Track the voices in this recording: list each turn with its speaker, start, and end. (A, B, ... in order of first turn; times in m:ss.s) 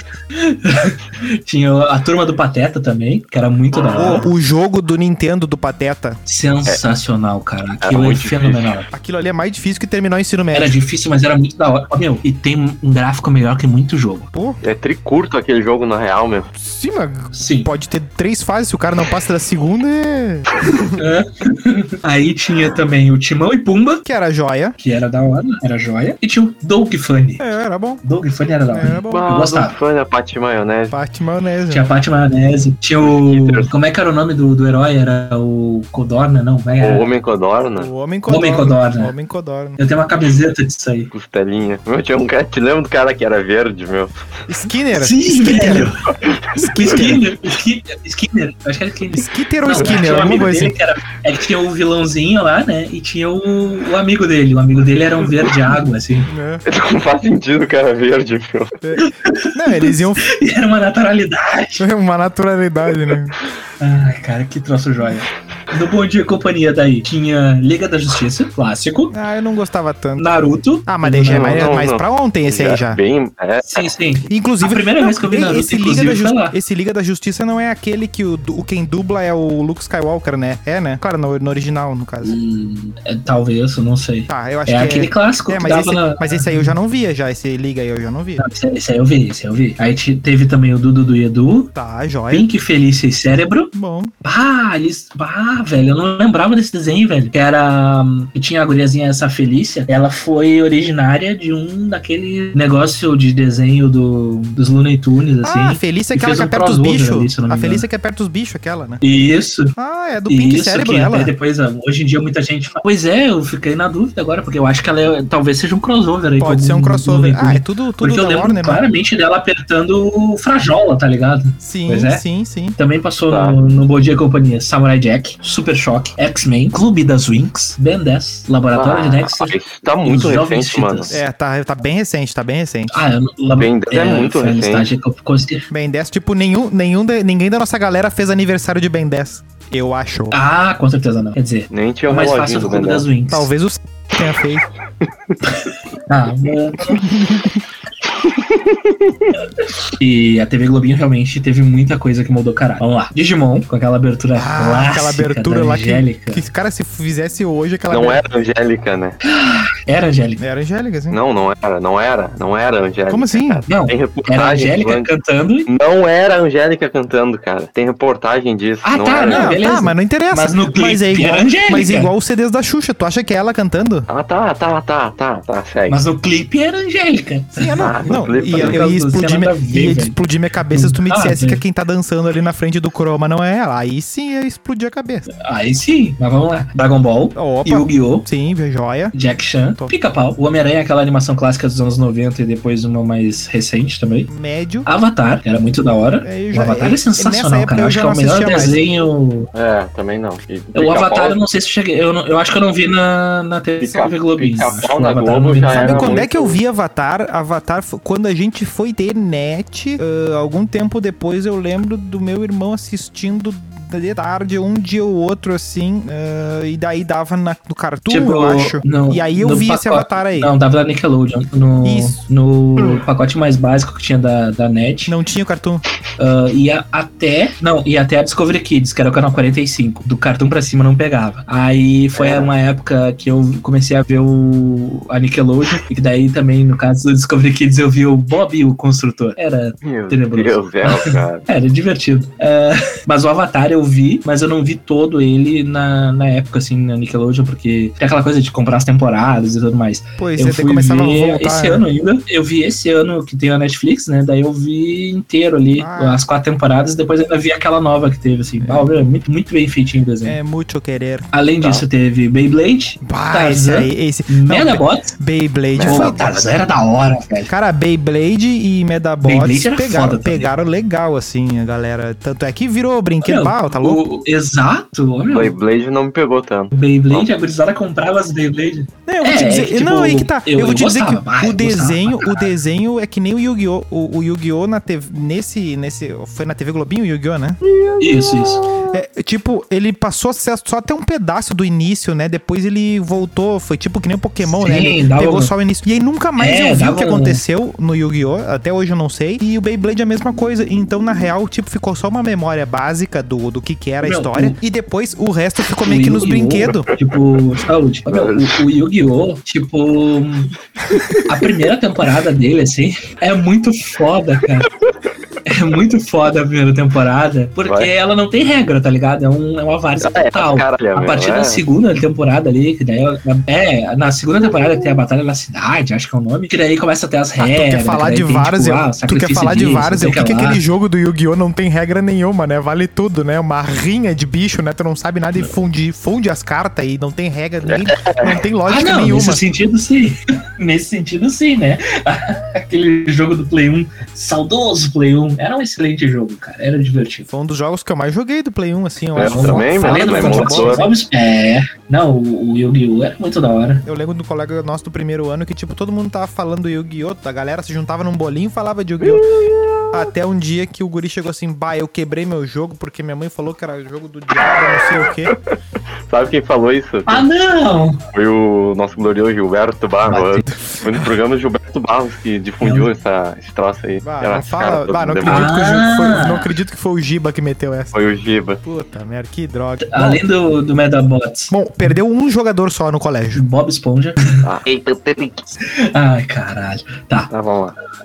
0:00.3-0:04.3 A
0:03.7-0:04.0 B
0:03.9-0:06.2 C
0:06.2-0:08.9 A
0:07.8-0:08.8 B
0:08.9-0:10.8 C
0:10.5-0:14.3 A
0:14.3-0:14.6 C
0:14.6-0:16.5 B
0:16.5-0:21.0 C
0:17.3-0:17.7 A
0:20.9-0:24.0 A
0:24.0-0:24.8 C
0:24.8-0:27.4 A
0:27.4-0:28.0 C
0:28.0-0:29.7 A
0:28.7-0:29.3 C
0:29.1-0:30.9 B
0:30.9-0:31.9 C
0:31.7-0:37.1 A
0:33.0-0:33.7 B
0:36.8-0:37.9 B
0:37.8-0:39.8 C
0:38.3-0:39.1 A
0:39.8-0:41.1 A
0:41.1-0:44.4 B
0:44.5-0:45.9 C
0:44.9-0:56.3 A
0:46.2-0:46.6 B
0:46.6-0:47.2 C
0:49.1-0:50.8 C
0:56.3-0:56.6 C
0:56.6-0:58.7 B
0:58.8-1:00.3 C
0:59.0-1:01.8 A
1:01.8-1:03.4 C
1:03.8-1:09.1 A
1:09.1-1:10.3 C
1:10.2-1:11.7 A
1:10.8-1:13.0 C
1:11.3-1:13.9 B
1:13.6-1:16.6 A
1:14.3-1:22.4 C
1:22.2-1:26.7 A
1:24.3-1:28.4 C
1:28.4-1:31.7 A
1:31.7-1:32.5 C
1:32.3-1:33.7 A
1:33.7-1:34.1 C
1:34.2-1:47.8 A
1:45.4-1:49.0 C
1:49.0-1:49.7 A
1:49.8-1:51.3 C
1:50.3-2:02.2 A
1:56.4-1:58.8 C
2:01.6-2:02.8 C
2:02.8-2:11.2 A
2:03.3-2:03.6 B
2:08.7-2:11.2 B
2:11.1-2:13.1 C
2:12.9-2:15.7 A
2:13.5-2:14.9 B
2:15.7-2:20.4 C
2:20.3-2:23.5 A
2:21.7-2:23.0 B
2:23.3-2:24.6 C
2:25.0-2:25.3 B
2:25.4-2:27.1 A
2:27.0-2:27.6 C
2:28.2-2:29.3 B
2:29.9-2:36.4 A
2:34.3-2:38.2 C
2:37.9-2:39.2 B
2:39.2-2:40.4 A
2:40.4-2:41.2 C
2:41.1-2:45.1 B
2:43.1-2:43.6 C
2:43.7-2:45.7 A
2:45.7-2:49.6 B
2:48.8-2:52.1 A
2:49.3-2:54.1 C
2:54.1-2:56.0 B
2:55.9-3:00.2 A
2:57.6-3:05.3 C
2:57.8-2:58.8 B
3:00.7-3:01.6 A
3:05.3-3:08.2 A
3:07.4-3:09.1 C
3:09.1-3:14.3 A
3:14.3-3:14.9 C
3:14.8-3:19.5 A
3:16.2-3:18.8 C
3:19.5-3:21.4 B
3:20.7-3:26.2 A
3:23.8-3:26.6 B
3:25.7-3:40.5 C
3:38.1-3:45.1 A
3:41.8-3:42.2 C
3:45.1-3:45.8 C
3:46.2-4:20.4 A
3:52.1-3:52.5 B
3:59.8-4:01.4 B
4:10.2-4:11.8 C
4:15.8-4:16.2 C
4:18.6-4:19.0 C
4:20.2-4:21.3 C
4:21.3-4:25.1 A
4:23.0-4:26.3 C
4:25.7-4:26.4 B
4:25.8-4:27.5 A
4:27.5-4:34.0 C
4:29.2-4:30.5 A
4:33.2-4:35.5 A
4:35.3-4:37.2 B
4:36.7-4:42.5 A
4:39.1-4:47.6 C
4:48.0-4:48.7 A
4:48.9-5:06.9 C
4:54.4-4:55.5 A
4:56.4-4:57.4 A
5:04.0-5:04.6 A
5:05.8-5:10.5 A
5:08.1-5:08.6 B
5:11.0-5:11.2 B
5:11.2-5:14.7 A
5:15.4-5:30.6 A
5:20.0-5:21.6 B
5:27.4-5:39.4 C
5:37.6-5:38.3 B
5:38.7-5:47.3 A
5:47.3-5:50.9 C
5:49.2-5:50.9 B
5:49.2-5:53.8 A
5:53.8-5:59.2 C
5:59.0-6:00.0 B
5:59.9-6:05.3 C
6:05.3-6:05.6 B
6:06.1-6:07.2 B
6:07.1-6:08.0 A
6:08.1-6:15.5 B
6:10.1-6:10.4 A
6:12.6-6:12.9 A
6:14.0-6:18.0 C
6:15.2-6:16.5 A
6:17.9-6:18.6 B
6:18.6-6:20.2 C
6:19.8-6:21.9 A
6:21.5-6:23.4 C
6:23.3-6:24.4 A
6:24.4-6:25.5 B
6:25.7-6:27.3 A
6:27.3-6:27.8 B